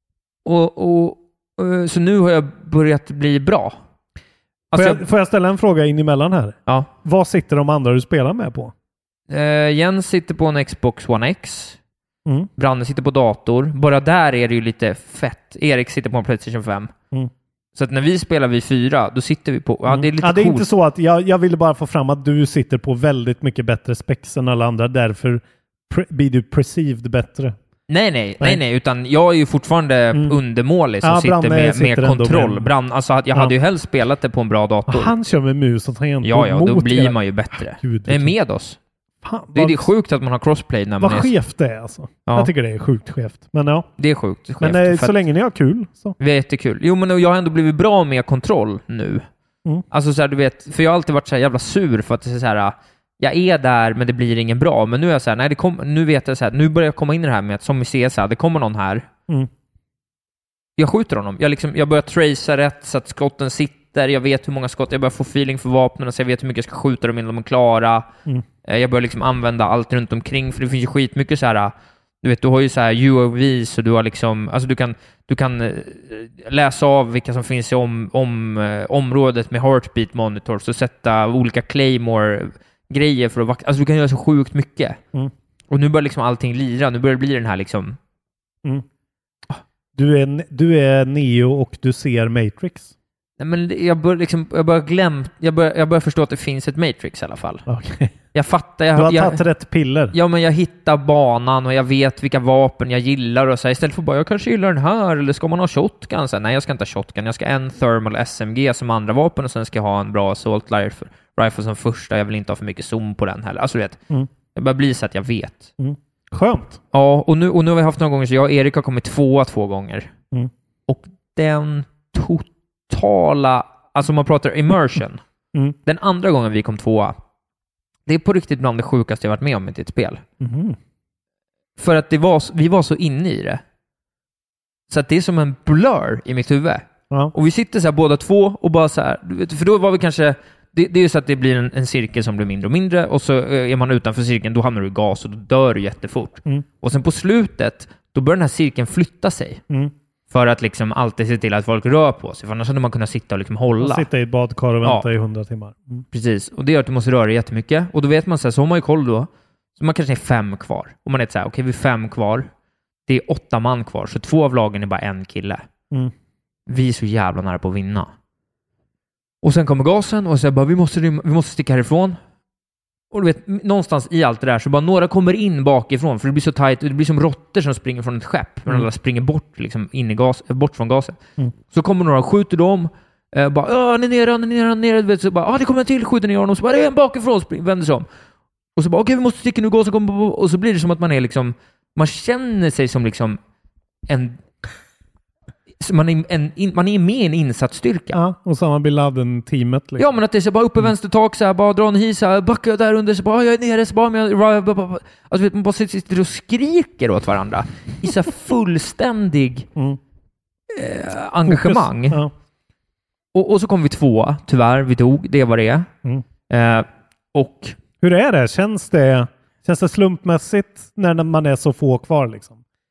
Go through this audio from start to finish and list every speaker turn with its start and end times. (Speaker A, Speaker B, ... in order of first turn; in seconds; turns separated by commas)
Speaker A: 0.4-3.8, Speaker A: 4.7-5.0, Speaker B: 4.7-8.7, Speaker A: 9.3-11.8, Speaker A: 12.6-16.9, Speaker A: 17.7-20.7, Speaker B: 19.9-27.6, Speaker A: 27.9-35.1, Speaker B: 30.1-30.4, Speaker B: 31.0-32.7, Speaker B: 34.9-38.3, Speaker A: 36.2-38.8, Speaker B: 39.2-39.9, Speaker A: 39.5-41.3, Speaker B: 41.0-43.9, Speaker A: 44.0-45.1, Speaker B: 44.6-46.2, Speaker A: 46.2-49.2, Speaker A: 49.9-59.1, Speaker A: 60.8-68.1, Speaker A: 68.6-85.0, Speaker A: 85.7-88.0, Speaker B: 89.9-92.9, Speaker A: 93.4-97.6, Speaker B: 97.7-98.1, Speaker A: 98.3-99.4, Speaker B: 98.9-100.1, Speaker A: 100.1-114.0, Speaker A: 114.5-115.7, Speaker B: 115.8-116.8, Speaker A: 116.9-120.1, Speaker A: 120.9-125.2, Speaker A: 125.8-127.2, Speaker A: 128.1-130.2, Speaker B: 130.4-130.8, Speaker A: 131.8-133.6, Speaker A: 134.9-149.6, Speaker A: 150.3-154.1, Speaker B: 153.8-156.0, Speaker A: 156.1-162.5, Speaker A: 163.1-165.6, Speaker A: 166.7-168.1, Speaker A: 169.4-172.2, Speaker A: 173.1-188.1, Speaker A: 188.8-193.4, Speaker A: 194.1-194.4, Speaker A: 195.8-198.2, Speaker B: 198.1-200.1, Speaker A: 200.0-209.7, Speaker A: 210.7-212.2, Speaker B: 211.4-212.3, Speaker A: 213.3-215.9, Speaker A: 216.5-217.8, Speaker B: 218.0-222.6